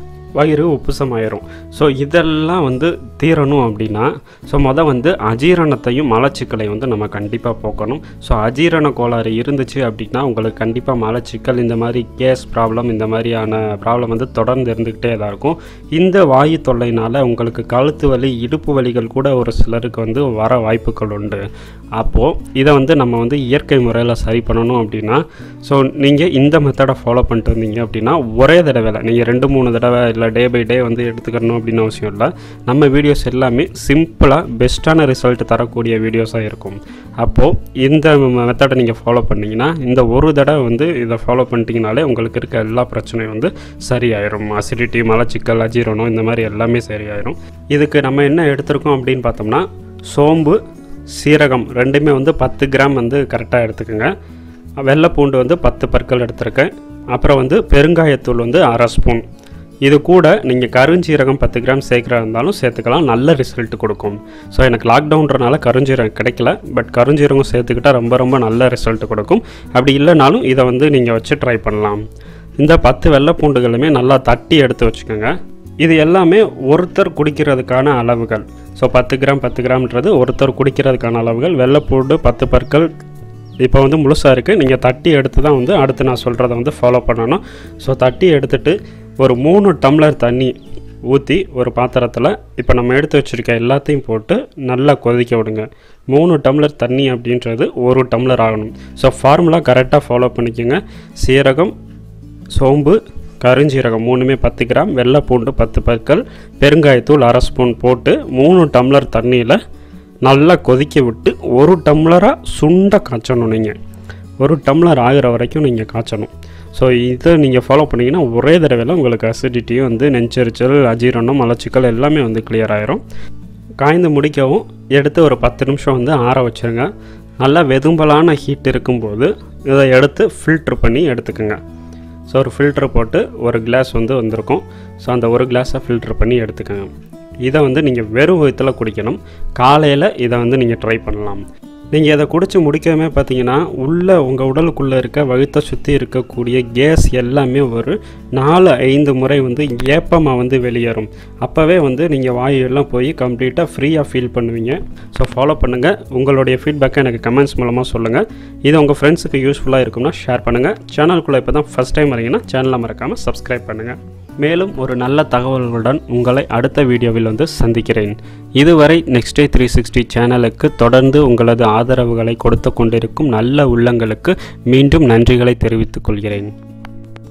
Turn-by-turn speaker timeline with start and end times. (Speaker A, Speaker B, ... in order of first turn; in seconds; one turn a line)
Speaker A: 0.4-21.4
Speaker A: 22.0-54.1
Speaker A: 54.8-59.2
Speaker A: 59.8-72.0
Speaker A: 72.6-82.9
Speaker A: 83.6-90.5
Speaker A: 91.1-101.7
Speaker A: 102.5-109.6
Speaker A: 110.2-113.8
Speaker A: 114.4-123.0
Speaker A: 123.8-126.9
Speaker A: 127.4-131.6
Speaker A: 132.3-136.9
Speaker A: 137.4-176.5